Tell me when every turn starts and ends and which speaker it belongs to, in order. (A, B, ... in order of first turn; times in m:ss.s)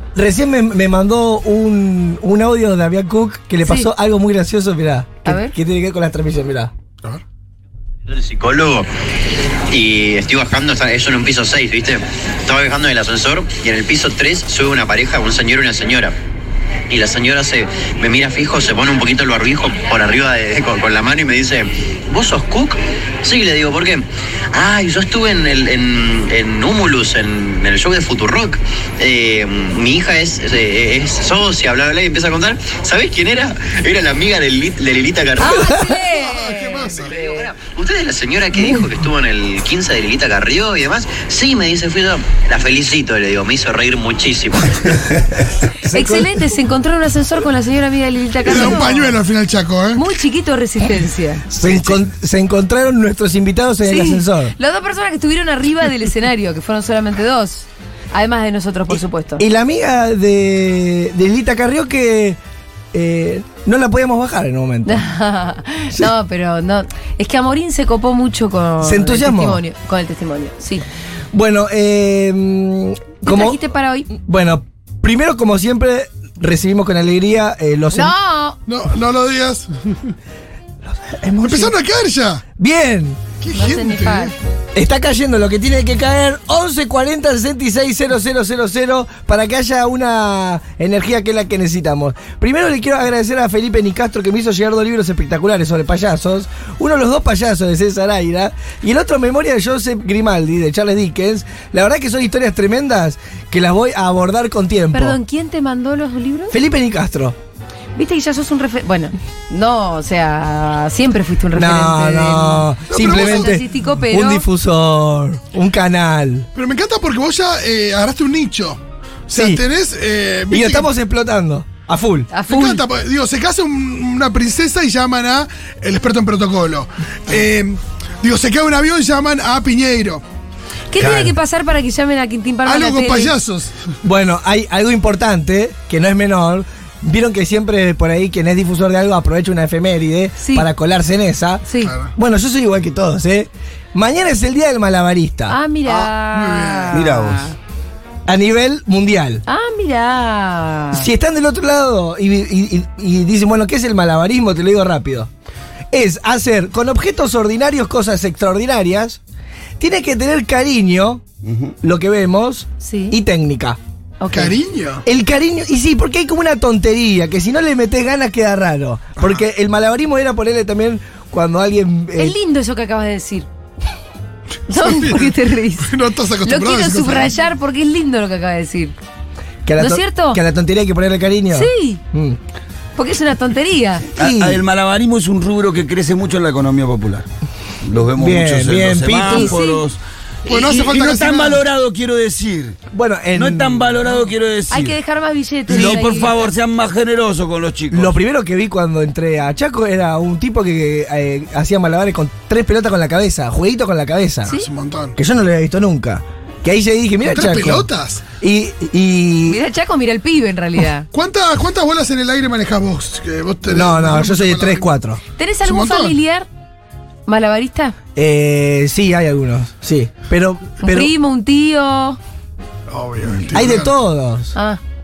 0:00.1-0:06.7 A
0:03.6-0:03.9 B
0:05.2-0:05.5 B
0:08.1-0:08.9 C
0:09.7-0:16.1 C
0:16.9-0:35.7 C
0:35.4-0:37.1 B
0:36.2-0:37.1 D
0:37.0-0:45.0 C
0:45.8-0:46.4 A
0:45.9-0:49.2 B
0:48.4-0:50.0 D
0:49.9-0:51.4 B
0:51.6-0:54.5 A
0:51.6-0:51.9 D
0:53.8-0:59.4 B
0:59.4-1:02.4 A
1:02.9-1:05.0 A
1:04.8-1:10.8 B
1:08.8-1:09.6 A
1:11.3-1:13.6 A
1:13.2-1:14.1 B
1:14.1-1:18.1 A
1:17.9-1:18.6 B
1:18.7-1:20.1 D
1:20.9-1:21.8 A
1:21.4-1:22.4 D
1:22.6-1:23.2 A
1:23.4-1:24.3 D
1:23.5-1:24.3 B
1:24.7-1:45.2 A
1:44.9-1:46.6 B
1:46.5-1:47.4 A
1:48.0-1:54.4 B
1:51.5-1:56.5 A
1:52.9-1:53.6 D
1:56.5-2:00.9 D
1:59.3-1:59.6 A
2:00.5-2:02.3 A
2:02.3-2:02.8 B
2:02.4-2:10.2 D
2:10.9-2:13.3 B
2:11.0-2:11.3 D
2:12.6-2:13.7 D
2:14.0-2:21.6 A
2:20.4-2:20.7 B
2:21.7-2:21.9 B
2:21.8-2:22.1 D
2:22.2-2:25.6 A
2:25.5-2:27.5 B
2:26.0-2:27.0 D
2:26.9-2:27.5 E
2:28.2-2:29.4 A
2:29.4-2:31.1 B
2:30.9-2:35.3 A
2:35.9-2:39.2 A
2:39.8-2:41.2 A
2:41.4-2:41.7 E
2:41.8-2:43.8 A
2:42.8-2:43.2 B
2:44.2-2:44.5 B
2:44.3-2:45.0 D
2:45.0-2:52.4 A
2:52.2-2:53.5 B
2:54.7-2:55.9 B
2:54.7-2:57.3 D
2:56.4-2:59.0 B
2:59.6-3:02.4 A
2:59.8-3:00.4 B
3:01.5-3:02.0 B
3:03.0-3:04.0 B
3:04.2-3:04.6 A
3:04.2-3:07.3 E
3:07.8-3:12.8 E
3:08.2-3:09.5 A
3:09.2-3:09.8 B
3:10.4-3:11.6 D
3:12.9-3:14.0 A
3:13.3-3:15.0 E
3:14.7-3:16.5 B
3:15.7-3:18.1 E
3:17.9-3:24.5 A
3:24.5-3:25.2 D
3:25.2-3:27.9 A
3:27.2-3:28.2 D
3:28.4-3:29.6 A
3:29.5-3:31.1 B
3:31.1-3:34.9 D
3:33.7-3:35.2 A
3:35.4-3:36.5 B
3:35.6-3:36.2 D
3:37.2-3:38.0 B
3:38.2-3:41.1 A
3:40.8-3:42.2 B
3:42.9-3:43.9 D
3:43.5-3:44.5 A
3:44.5-3:44.8 B